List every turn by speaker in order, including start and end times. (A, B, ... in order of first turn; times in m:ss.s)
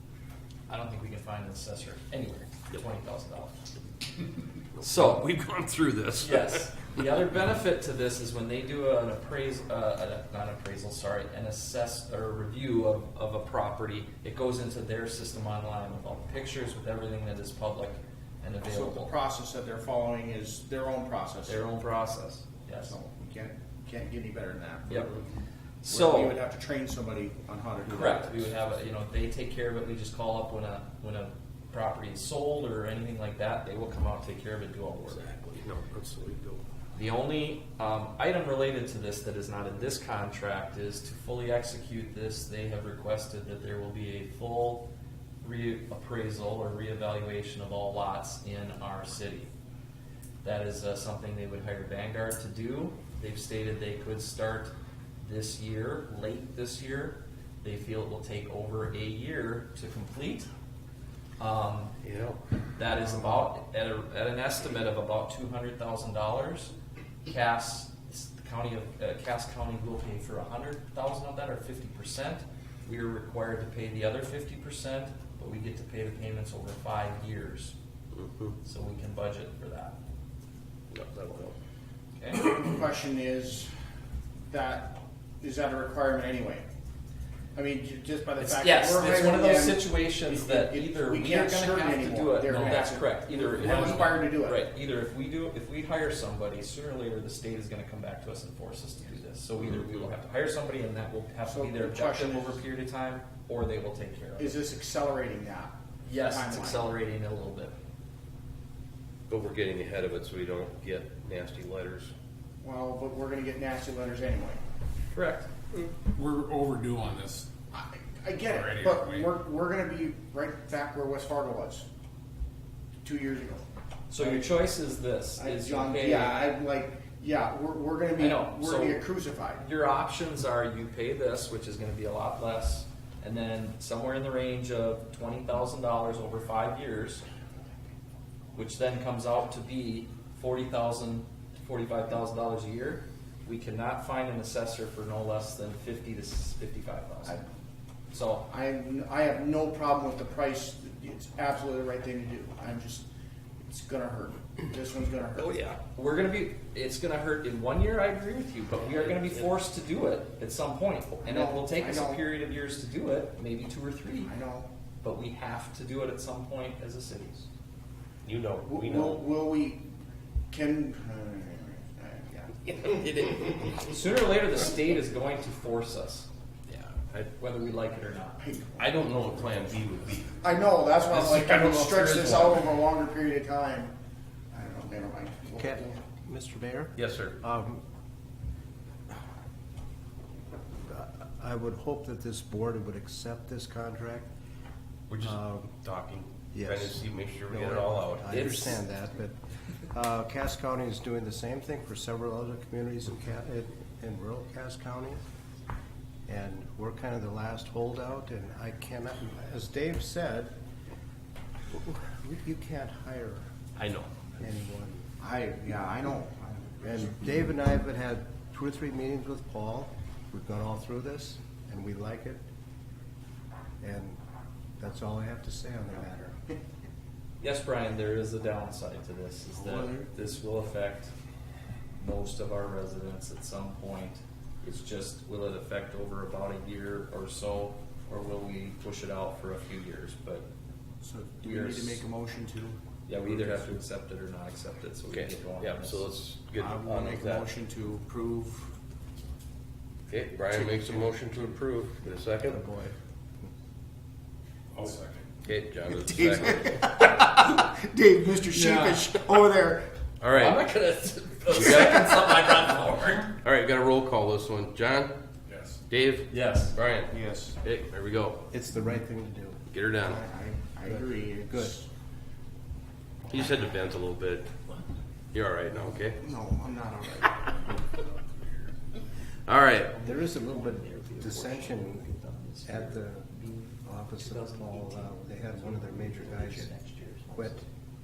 0:00.7-0:03.6 A
0:04.8-0:06.7 B
0:04.8-0:05.2 A
0:06.2-0:19.1 A
0:18.7-0:21.7 C
0:21.5-0:23.0 A
0:22.8-0:25.2 C
0:25.8-0:26.4 A
0:25.9-0:28.6 C
0:27.9-0:35.3 A
0:35.1-0:36.6 B
0:36.9-0:44.9 A
0:45.4-0:49.5 A
0:50.4-1:00.5 A
1:01.4-1:01.9 A
1:02.0-1:02.4 B
1:02.8-1:06.7 A
1:07.3-1:17.8 A
1:18.1-1:18.6 B
1:18.6-1:20.0 A
1:20.9-1:21.6 B
1:22.2-1:22.4 A
1:22.3-1:23.7 C
1:24.4-1:26.7 C
1:27.6-1:34.6 C
1:28.4-1:44.6 A
1:32.5-1:32.9 D
1:33.6-1:33.9 D
1:41.4-1:42.6 C
1:44.4-1:46.9 C
1:46.0-1:47.7 A
1:49.3-1:52.1 B
1:52.6-1:54.6 C
1:55.1-1:55.5 A
1:56.0-1:57.5 D
1:57.7-2:01.8 C
1:58.4-1:59.3 D
2:03.0-2:03.6 C
2:04.1-2:06.4 A
2:04.2-2:04.5 C
2:05.4-2:09.6 C
2:08.2-2:09.1 A
2:09.6-2:17.2 A
2:18.6-2:27.4 A
2:28.1-2:28.5 A
2:28.5-2:33.1 C
2:33.7-2:35.6 C
2:35.4-2:35.8 B
2:35.9-2:44.3 A
2:38.9-2:39.5 B
2:41.2-2:42.2 C
2:44.3-2:44.7 C
2:45.0-2:47.5 A
2:48.2-2:49.2 B
2:48.6-2:49.8 C
2:50.5-2:53.4 C
2:53.0-2:56.3 A
2:56.7-2:57.3 B
2:57.4-2:58.4 A
2:58.4-2:58.9 C
2:58.8-3:00.4 B
3:00.4-3:04.0 C
3:01.1-3:02.7 B
3:04.5-3:06.0 C
3:05.6-3:07.8 E
3:07.0-3:07.4 B
3:10.9-3:14.3 E
3:15.1-3:18.6 B
3:15.2-3:15.7 E
3:16.5-3:19.4 E
3:18.3-3:18.8 A
3:19.9-3:25.2 E
3:26.3-3:30.5 E
3:31.7-3:33.5 E
3:33.8-3:34.1 B
3:34.4-3:35.0 E
3:35.2-3:37.2 C
3:36.8-3:42.4 E
3:43.8-3:44.2 E
3:44.8-3:46.5 E
3:47.4-3:51.1 A
3:52.0-4:00.5 A
4:01.0-4:02.8 C
4:01.4-4:02.0 A
4:03.1-4:06.2 A
4:05.1-4:07.5 B
4:06.6-4:08.7 C
4:10.1-4:12.7 B
4:12.5-4:12.9 A
4:14.7-4:15.2 D
4:15.4-4:16.9 B
4:15.9-4:19.9 C
4:18.5-4:19.0 A
4:20.2-4:20.7 B
4:20.3-4:23.4 A
4:21.5-4:22.5 B
4:23.4-4:25.2 B
4:25.5-4:25.8 D
4:25.9-4:28.4 B
4:26.3-4:26.8 A
4:27.1-4:27.6 C
4:28.5-4:29.6 E
4:29.7-4:30.2 B
4:30.0-4:31.9 C
4:30.8-4:31.8 E
4:33.3-4:34.5 B
4:35.3-4:36.2 B
4:36.2-4:37.5 C
4:39.5-4:39.9 B
4:39.9-4:47.7 A
4:40.0-4:42.1 E
4:42.7-4:46.8 E
4:47.3-4:47.6 E